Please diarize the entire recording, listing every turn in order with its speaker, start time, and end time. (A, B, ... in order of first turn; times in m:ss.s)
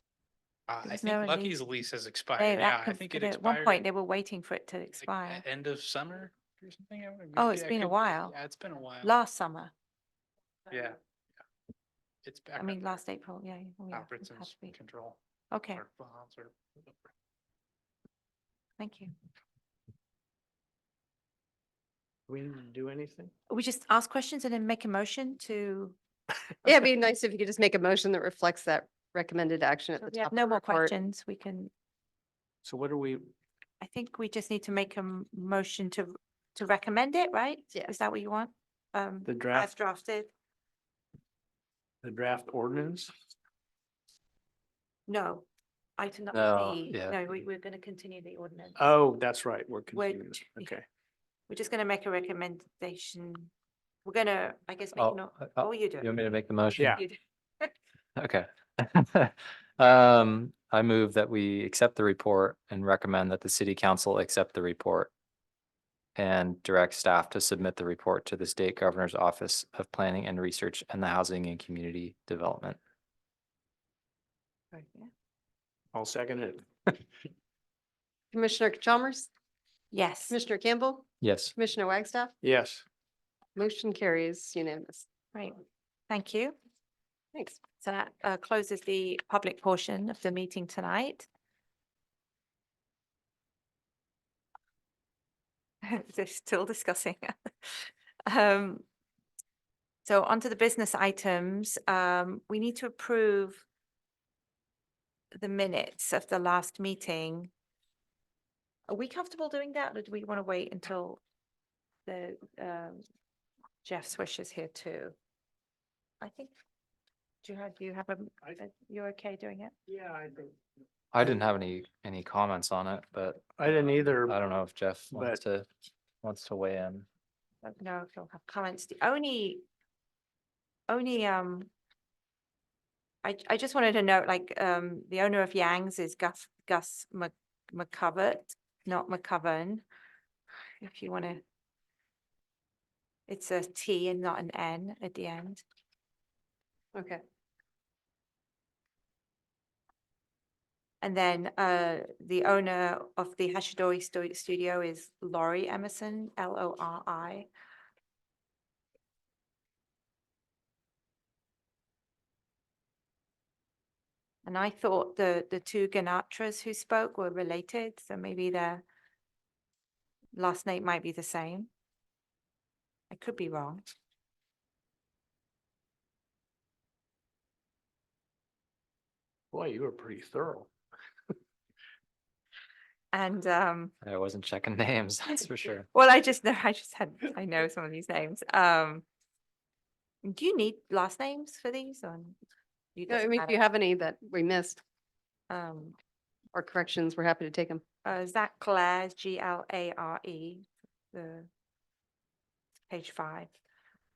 0:00.7-0:03.8 A
0:00.8-0:01.6 B
0:02.4-0:05.4 B
0:05.0-0:09.1 A
0:07.4-0:08.4 B
0:09.0-0:09.7 B
0:10.7-0:11.0 A
0:12.2-0:13.0 A
0:12.6-0:14.7 B
0:13.9-0:15.2 A
0:15.5-0:15.8 B
0:15.7-0:16.5 A
0:18.8-0:19.1 B
0:22.3-0:23.3 C
0:23.5-0:26.0 B
0:26.6-0:30.9 D
0:30.0-0:31.7 B
0:32.6-0:33.3 C
0:33.8-0:40.3 B
0:39.3-0:39.7 C
0:42.0-0:43.1 C
0:45.1-0:48.8 B
0:46.3-0:47.2 E
0:48.8-0:50.8 C
0:49.9-0:50.7 B
0:51.5-0:53.5 B
0:54.0-0:56.1 B
0:55.0-0:57.0 E
0:56.9-0:57.7 B
0:58.2-1:05.1 E
1:06.2-1:12.8 E
1:14.7-1:15.1 B
1:15.9-1:16.7 C
1:18.3-1:19.3 D
1:19.9-1:20.4 B
1:20.3-1:22.4 D
1:21.2-1:21.5 E
1:22.4-1:22.8 C
1:23.6-1:25.1 D
1:25.3-1:26.6 B
1:27.3-1:27.6 D
1:27.8-1:31.3 B
1:35.8-1:38.8 B
1:40.0-1:43.6 B
1:45.3-1:47.5 B
1:48.9-1:51.2 B
1:52.1-1:53.0 B
1:53.8-1:55.2 B
1:56.2-1:56.5 B
1:57.4-1:59.7 B
1:59.9-2:00.5 C
2:01.1-2:05.7 E
2:03.6-2:04.4 C
2:05.1-2:05.4 C
2:06.2-2:07.1 E
2:07.6-2:09.6 B
2:10.9-2:11.7 B
2:13.2-2:19.8 B
2:20.8-2:21.4 B
2:23.3-2:25.6 B
2:27.0-2:27.2 D
2:31.0-2:37.5 B
2:44.4-2:48.8 B
2:50.3-2:51.7 B
2:53.1-2:53.8 B
2:59.5-3:00.7 C
3:03.1-3:03.9 B
3:04.0-3:05.9 E
3:05.9-3:09.0 B
3:10.2-3:12.4 B
3:13.0-3:13.6 B
3:13.1-3:14.8 D
3:15.5-3:16.0 B
3:16.5-3:17.8 D
3:18.0-3:21.5 B
3:22.9-3:23.5 B